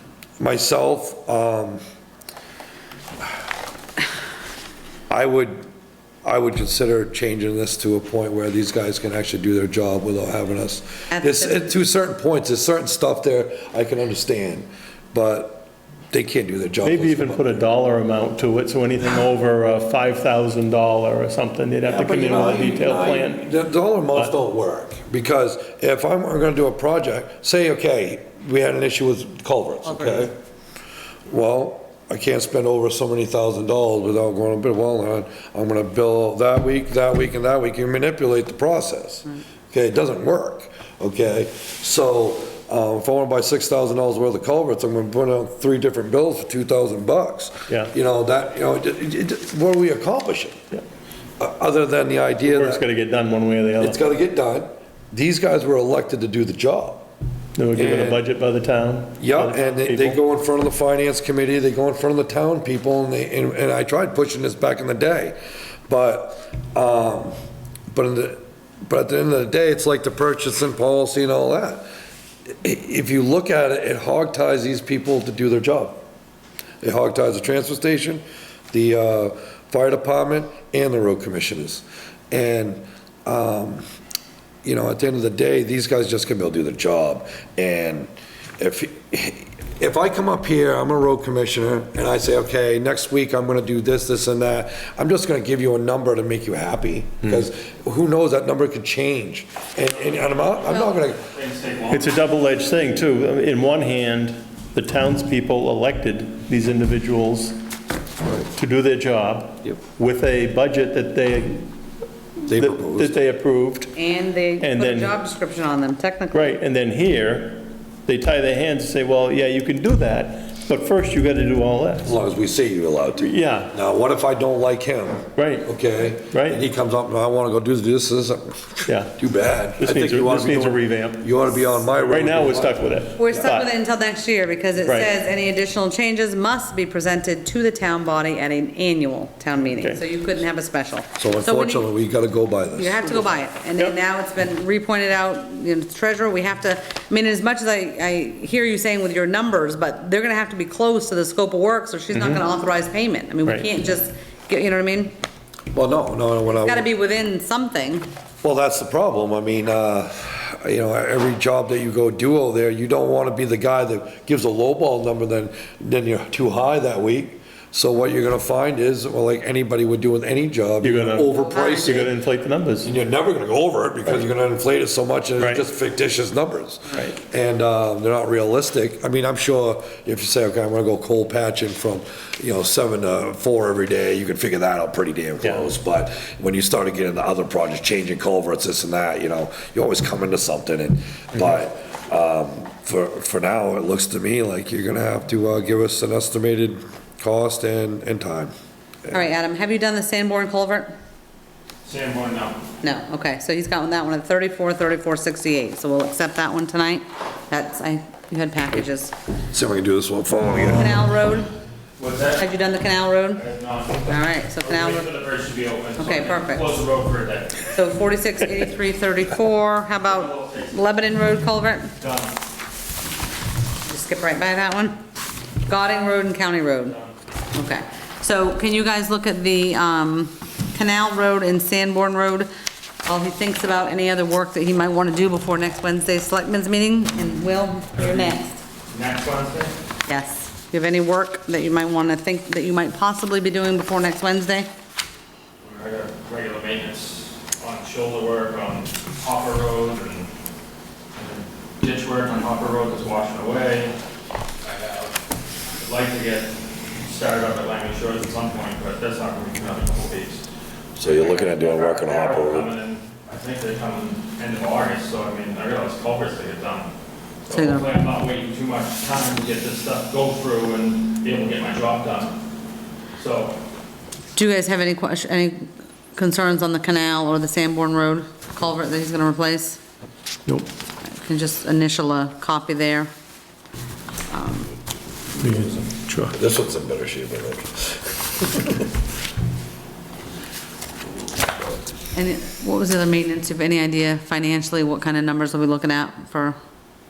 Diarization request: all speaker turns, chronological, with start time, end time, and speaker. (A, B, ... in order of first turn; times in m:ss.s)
0:00.4-0:01.8 A
0:05.1-0:05.6 A
0:06.2-0:17.6 A
0:11.1-0:11.6 B
0:16.8-0:23.4 C
0:21.9-0:30.3 A
0:29.8-0:30.3 B
0:31.3-0:50.6 A
0:51.4-0:52.8 A
0:52.4-0:54.1 C
0:53.8-0:57.0 A
0:57.6-1:00.2 C
0:57.7-0:58.2 A
0:59.2-1:05.4 A
1:05.9-1:07.3 A
1:07.9-1:11.8 A
1:12.6-1:16.0 A
1:16.8-1:23.8 A
1:24.6-1:41.2 A
1:39.9-1:42.2 D
1:41.9-1:47.6 C
1:48.5-1:51.7 C
1:52.4-1:53.9 C
1:52.5-1:53.1 A
1:53.9-1:56.5 B
1:54.6-1:55.1 C
1:56.3-2:02.1 C
2:02.0-2:13.5 A
2:03.2-2:03.7 C
2:05.4-2:05.7 C
2:06.3-2:06.6 C
2:08.9-2:09.1 C
2:09.8-2:13.7 C
2:13.2-2:21.9 B
2:14.8-2:15.1 C
2:21.2-2:23.0 A
2:22.8-2:35.1 B
2:32.1-2:32.5 C
2:35.7-2:36.8 A
2:36.4-2:38.1 B
2:38.4-2:52.1 A
2:50.8-2:52.9 C
2:51.3-2:52.0 B
2:52.8-3:18.5 A
2:55.4-2:55.6 C
3:19.1-3:20.9 B
3:21.8-3:22.7 D
3:22.8-3:29.1 B
3:29.5-3:31.0 A
3:30.6-3:31.5 B
3:32.0-3:32.4 D
3:32.4-3:33.4 B
3:33.3-3:37.7 D
3:34.0-3:35.1 B
3:36.0-3:36.7 B
3:37.7-3:41.9 B
3:40.0-3:40.8 D
3:42.0-3:42.4 D
3:43.8-3:45.0 B
3:45.6-3:47.0 B
3:46.8-3:47.1 D
3:47.5-3:52.5 B
3:53.0-3:58.6 B
3:58.0-3:58.4 D
3:58.9-3:59.7 D
4:00.1-4:04.7 B
4:05.6-4:10.3 D
4:11.1-4:13.9 D
4:14.6-4:15.1 D
4:15.7-4:26.9 D
4:21.0-4:22.7 A
4:27.4-4:32.4 D
4:27.5-4:27.9 B
4:33.1-4:33.6 D
4:34.4-4:39.8 B
4:41.0-4:43.1 B
4:44.3-4:44.7 B
4:45.4-4:46.3 C
4:46.3-4:48.7 A
4:52.1-4:56.6 B